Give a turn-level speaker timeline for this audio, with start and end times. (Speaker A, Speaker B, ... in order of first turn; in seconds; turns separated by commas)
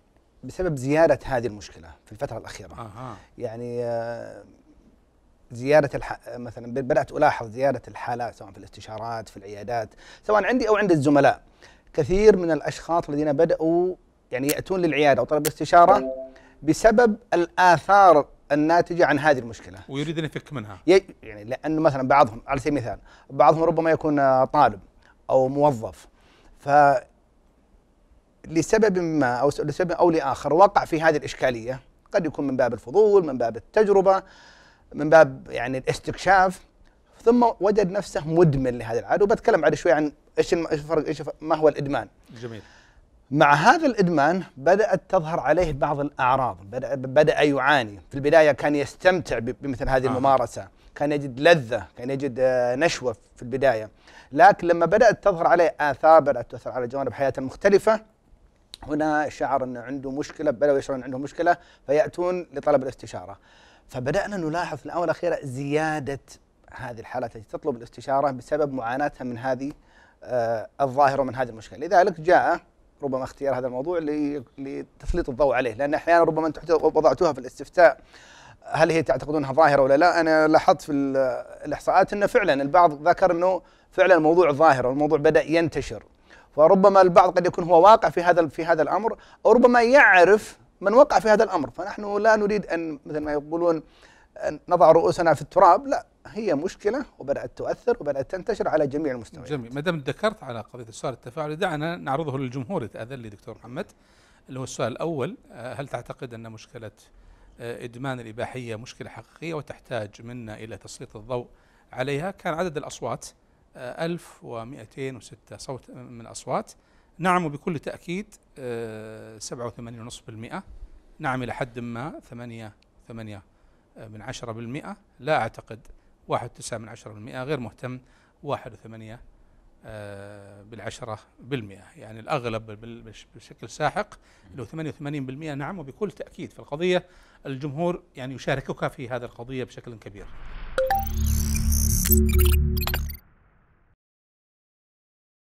Speaker A: 0.4-2.8, Speaker B: 2.8-3.2, Speaker A: 3.4-4.5, Speaker A: 5.5-11.4, Speaker A: 11.9-16.1, Speaker A: 16.6-19.9, Speaker B: 19.9-20.8, Speaker A: 20.9-26.1, Speaker A: 26.6-27.1, Speaker A: 28.5-34.2, Speaker A: 35.0-36.6, Speaker A: 37.2-42.1, Speaker B: 42.3-42.6, Speaker A: 43.3-58.0, Speaker B: 50.0-50.3, Speaker A: 58.9-63.4, Speaker A: 63.9-78.0, Speaker A: 78.7-93.8, Speaker A: 94.4-99.7, Speaker B: 99.4-103.9, Speaker B: 104.5-107.0, Speaker B: 107.6-120.6, Speaker B: 121.2-123.4, Speaker B: 124.0-129.2, Speaker B: 129.9-140.3